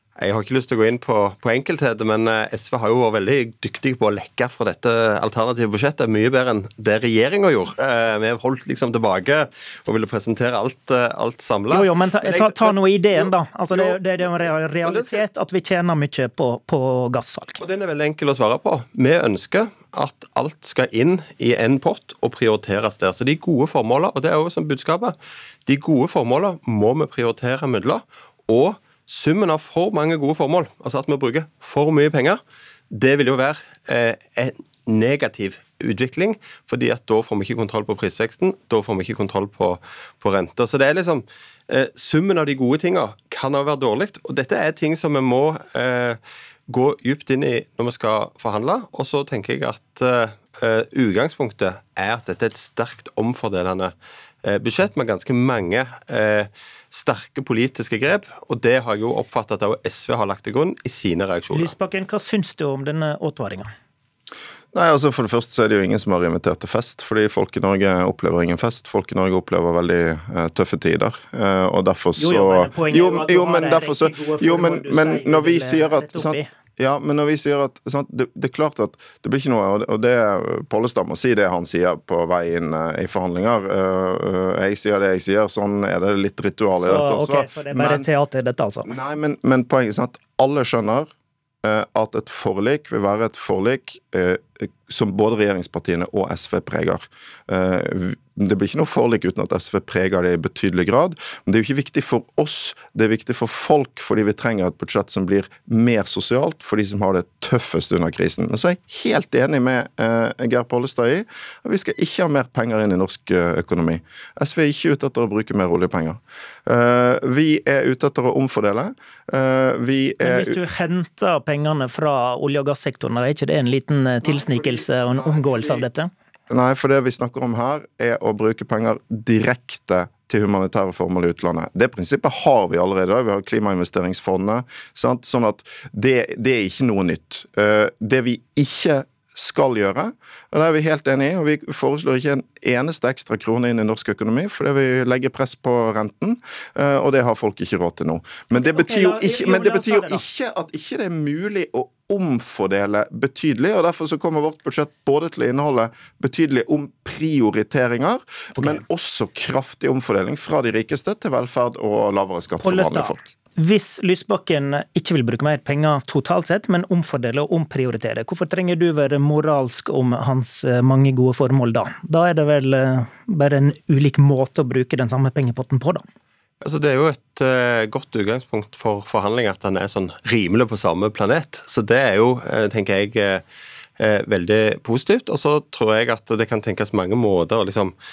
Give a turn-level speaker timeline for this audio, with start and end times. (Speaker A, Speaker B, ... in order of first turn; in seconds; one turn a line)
Speaker A: 0.2-14.0
Speaker B: 11.7-17.6
Speaker A: 14.8-15.2
Speaker A: 17.6-25.1
Speaker A: 25.7-32.4
Speaker A: 32.9-53.9
Speaker A: 54.4-61.7
Speaker B: 61.5-63.7
Speaker C: 64.7-88.1
Speaker B: 72.2-76.5
Speaker B: 86.8-88.9
Speaker C: 88.9-91.1
Speaker C: 91.6-120.6
Speaker B: 120.2-126.1
Speaker C: 124.2-125.8
Speaker C: 126.5-163.2
Speaker B: 148.6-150.2
Speaker B: 162.6-176.0
Speaker A: 176.6-183.4
Speaker A: 184.0-187.9